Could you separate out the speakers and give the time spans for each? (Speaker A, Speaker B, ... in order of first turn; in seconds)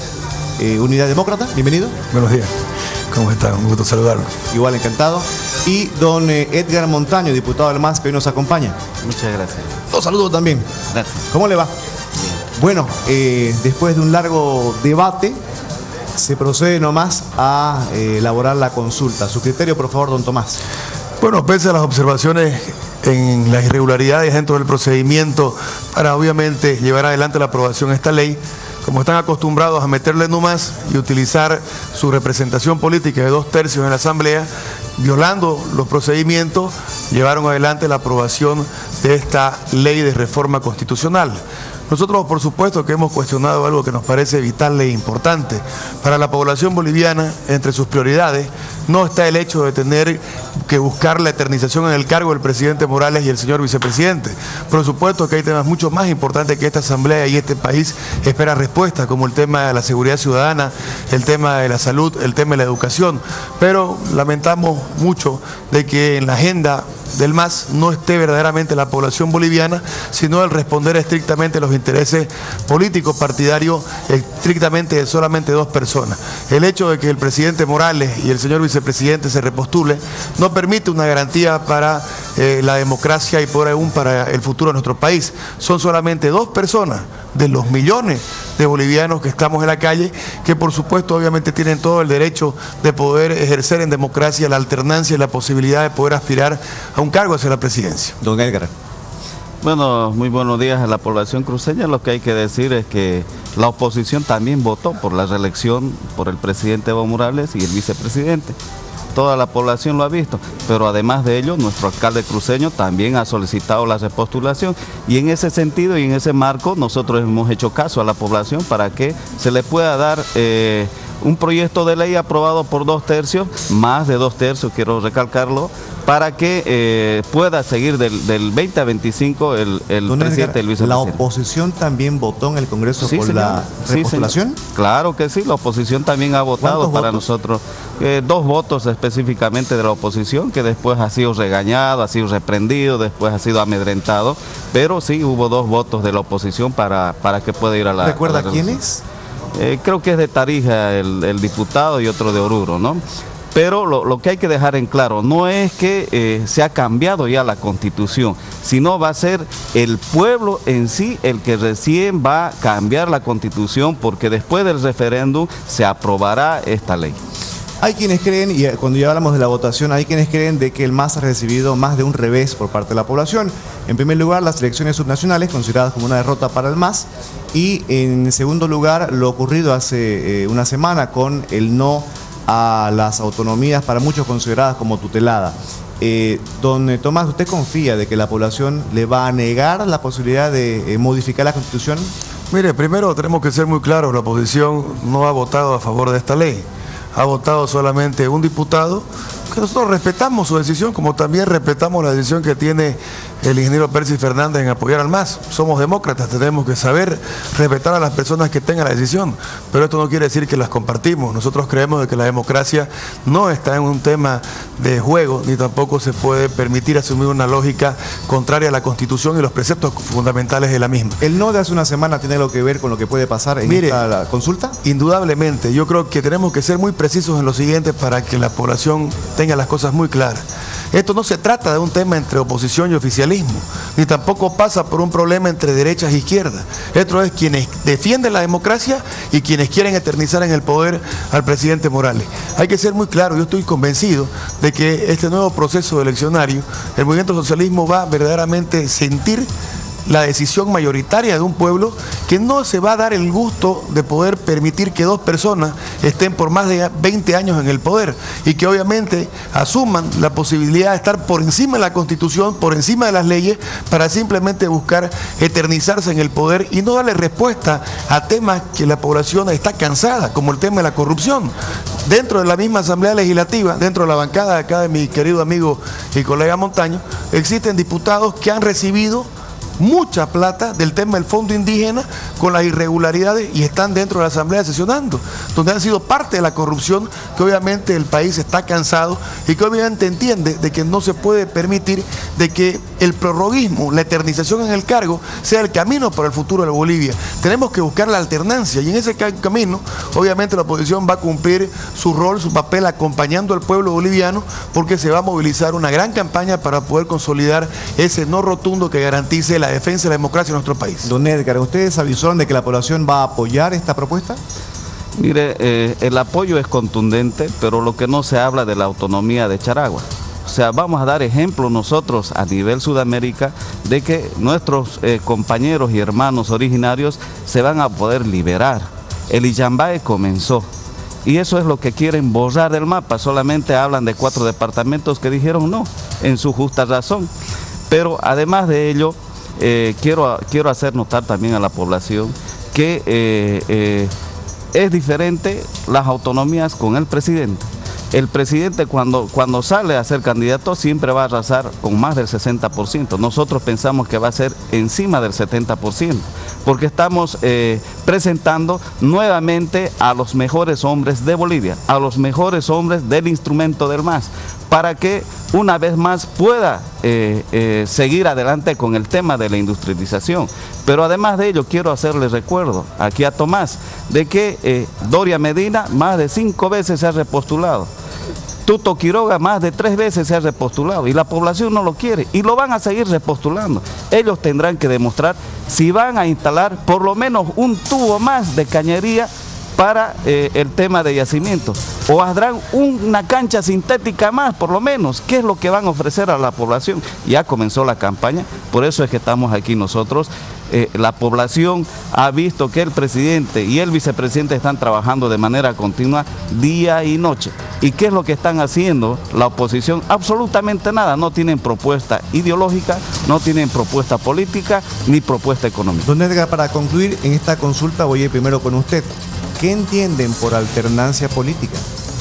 Speaker A: 0.6-2.0, 4.5-8.8, 9.9-10.7, 11.3-11.7, 12.6-15.4, 16.2-20.6, 98.2-98.7, 130.1-134.6, 136.6-137.2, 148.0-149.0, 167.8-192.1, 221.2-224.8, 311.0-314.4, 416.1-421.8
Speaker B: 2.1-2.5, 3.1-4.4, 21.2-98.2, 192.5-221.2, 223.7-224.0, 224.8-249.5, 250.1-271.5, 272.1-311.1
Speaker C: 9.0-9.8, 10.9-11.2, 99.6-108.6, 109.1-131.2, 133.0-148.8, 149.6-153.0, 153.5-167.2, 315.2-330.7, 331.2-337.3, 337.9-344.1, 344.7-377.9, 378.6-416.1